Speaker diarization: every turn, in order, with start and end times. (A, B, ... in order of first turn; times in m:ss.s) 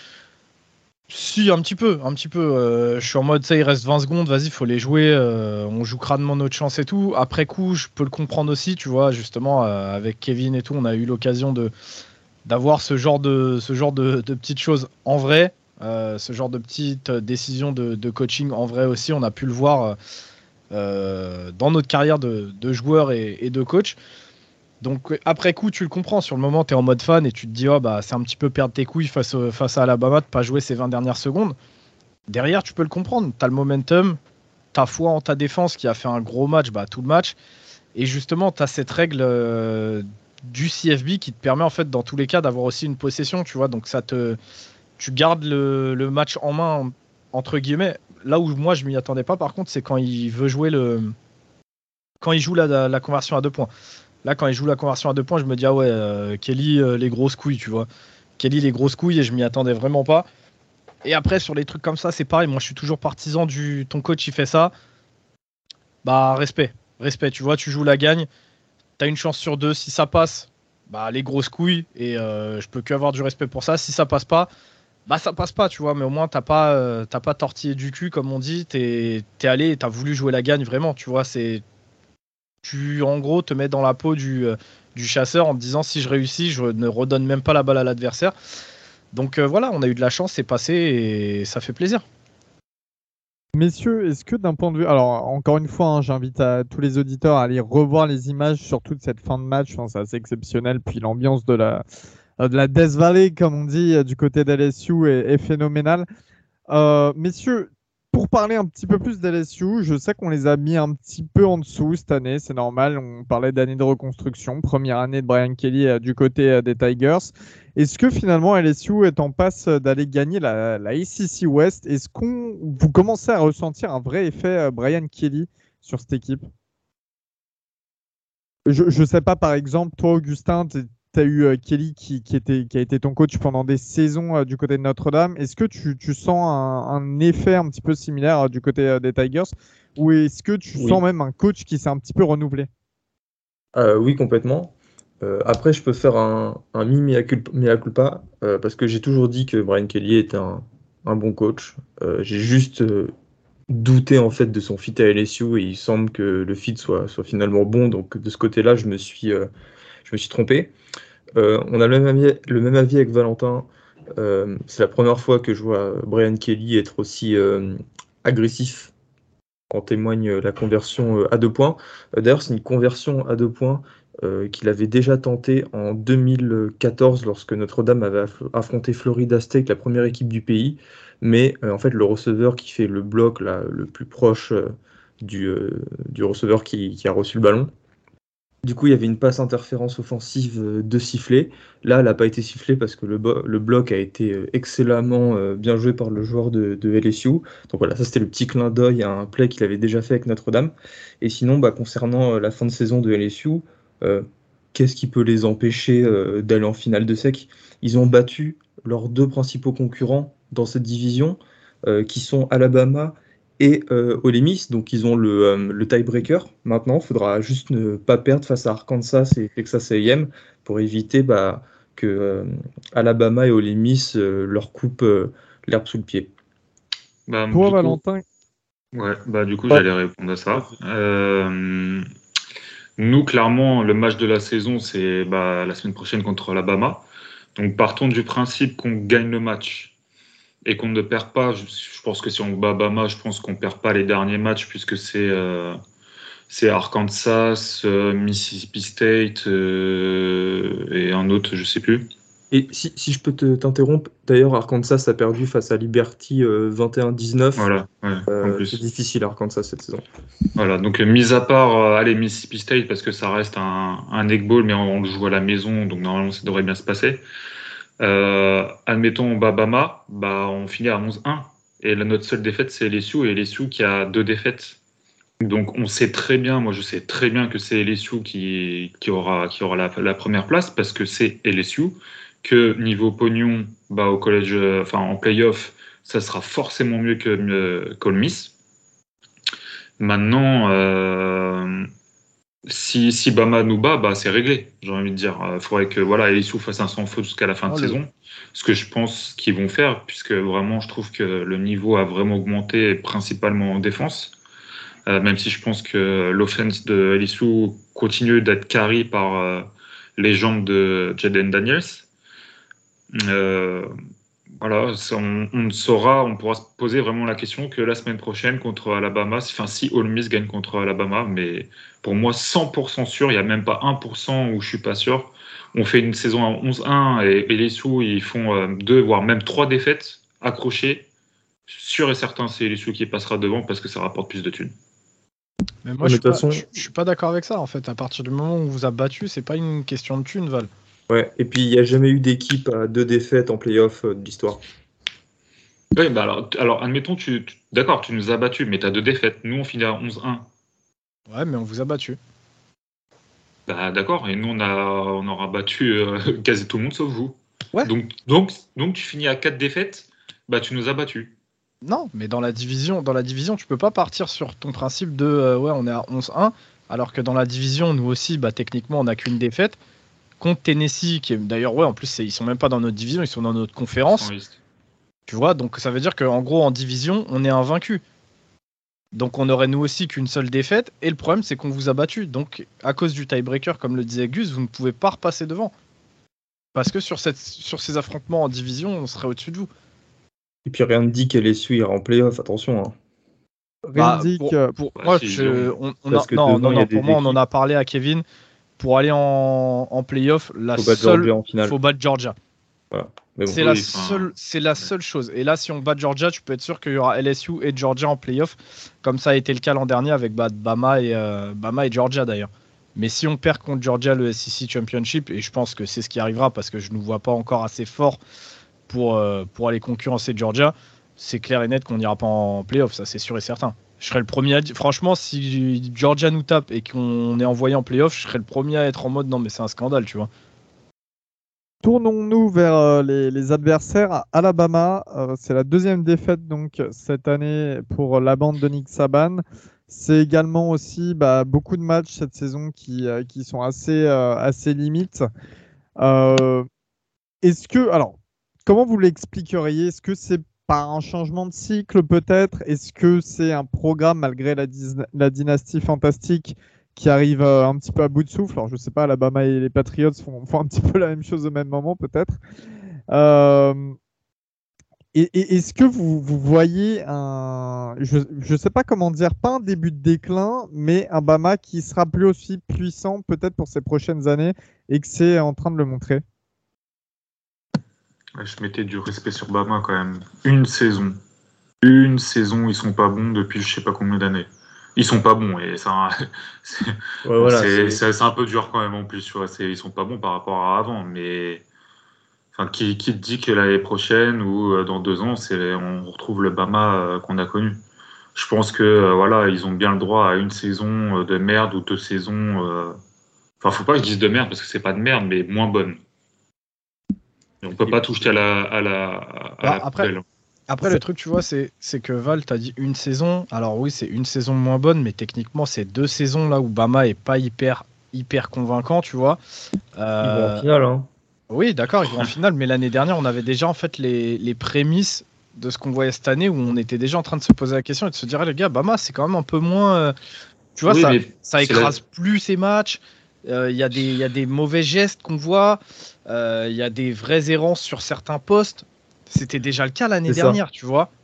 0:01.1-0:11.7 A
0:12.4-0:20.0 A
0:20.7-0:24.0 A
0:24.8-0:31.6 A
0:32.3-0:34.2 A
0:34.7-0:37.4 A
0:37.9-0:44.4 A
0:45.0-0:51.1 A
0:52.2-0:53.7 A
0:54.2-0:57.9 A
0:58.4-1:00.2 A
1:01.0-1:04.7 A
1:06.0-1:08.3 A
1:09.0-1:14.5 A
1:15.1-1:21.6 A
1:22.6-1:28.3 A
1:29.1-1:32.0 A
1:33.5-1:41.8 B
1:42.4-1:46.0 B
1:46.7-2:06.5 B
2:08.7-2:22.7 B
2:20.8-2:21.0 C
2:23.7-2:33.1 C
2:33.7-2:39.5 C
2:40.0-2:40.7 C
2:41.4-2:48.9 C
2:49.7-3:07.7 C
3:08.6-3:46.3 C
3:47.3-3:48.0 D
3:47.5-3:48.2 B
3:48.9-3:52.1 D
3:53.0-3:59.9 D
4:00.6-4:05.8 D
4:06.5-4:12.1 D
4:12.5-4:17.7 C
4:17.6-4:18.8 D
4:18.3-4:20.0 C
4:20.6-4:27.2 D
4:28.0-4:34.8 D
4:35.4-4:48.5 D
4:50.0-4:51.9 D
4:52.7-5:04.3 D
4:57.7-4:58.0 A
5:05.1-5:12.1 D
5:13.1-5:13.9 D
5:14.6-5:31.1 D
5:31.7-5:34.7 D
5:35.8-5:40.7 A
5:36.0-5:36.6 C
5:41.1-5:44.6 C
5:45.9-5:50.5 D
5:51.3-5:52.2 A
5:53.7-6:01.3 D
6:01.8-6:09.8 A
6:10.4-6:14.3 A
6:14.1-6:14.6 D
6:15.3-6:18.0 A
6:19.1-6:25.7 A
6:26.7-6:29.7 A
6:30.6-6:33.0 C
6:33.9-6:34.8 B
6:34.0-6:38.2 A
6:35.0-6:35.7 D
6:36.1-6:37.4 C
6:38.8-6:42.3 A
6:40.8-6:41.8 C
6:42.9-6:43.7 C
6:43.5-6:58.2 A
6:43.5-6:44.9 D
6:58.9-7:10.3 A
7:11.8-7:25.3 B
7:26.0-7:26.7 B
7:27.4-7:42.4 B
7:43.1-7:44.0 B
7:45.1-7:56.2 B
7:58.4-8:01.2 D
8:01.8-8:11.6 D
8:07.2-8:08.0 C
8:12.5-8:17.8 D
8:18.3-8:23.0 D
8:23.6-8:26.0 D
8:27.6-8:30.2 D
8:27.8-8:28.3 C
8:29.6-8:30.1 A
8:30.7-8:39.4 A
8:40.0-8:40.6 A
8:40.2-8:41.1 C
8:41.5-8:50.1 A
8:50.7-9:01.1 A
8:50.9-8:51.9 D
9:00.3-9:00.6 C